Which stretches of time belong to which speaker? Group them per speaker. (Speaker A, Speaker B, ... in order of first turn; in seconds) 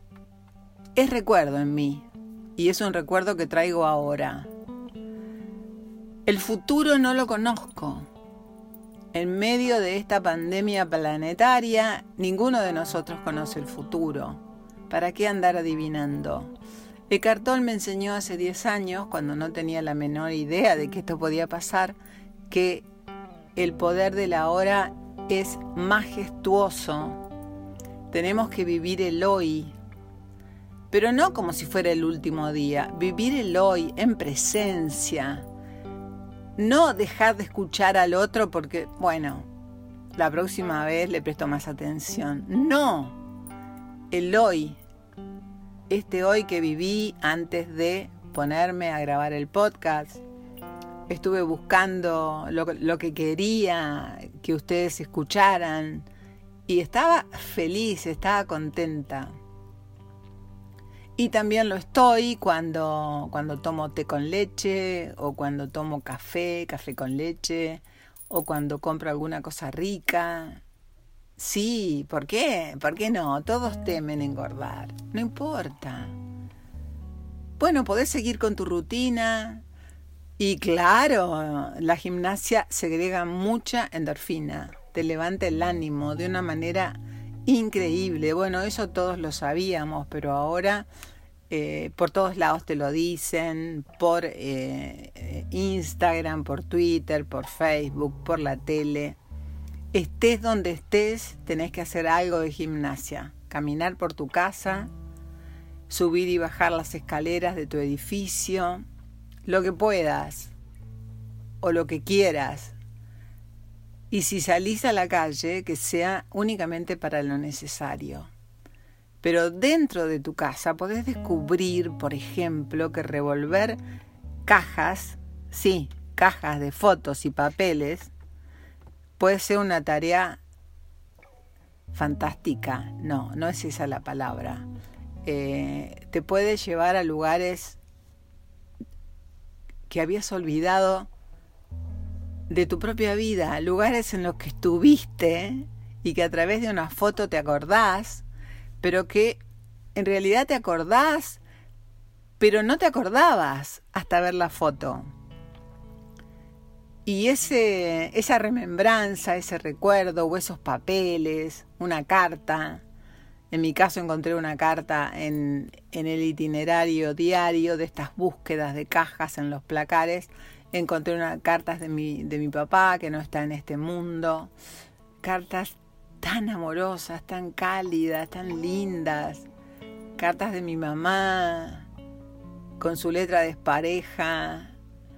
Speaker A: 0.9-2.0, 2.6-4.5, 6.2-8.1, 9.1-16.5, 17.1-22.0, 22.5-22.8, 23.6-27.2, 28.1-29.8, 30.9-35.5, 36.6-39.5, 40.1-43.2, 44.1-44.8, 45.9-50.2, 51.1-56.0, 56.7-59.3, 61.2-70.6, 71.4-76.1, 77.6-79.6, 80.4-90.9, 91.5-99.2, 99.9-104.9, 105.9-108.8, 109.4-110.5, 111.6-112.8, 114.1-118.3, 119.2-123.8, 124.5-128.1, 129.2-130.4, 131.9-134.6, 135.2-137.8, 139.9-141.1, 142.5-148.2, 148.8-149.4, 149.9-151.4, 152.4-155.1, 157.0-162.8, 163.5-174.5, 175.2-179.4, 180.2-181.9, 182.8-184.7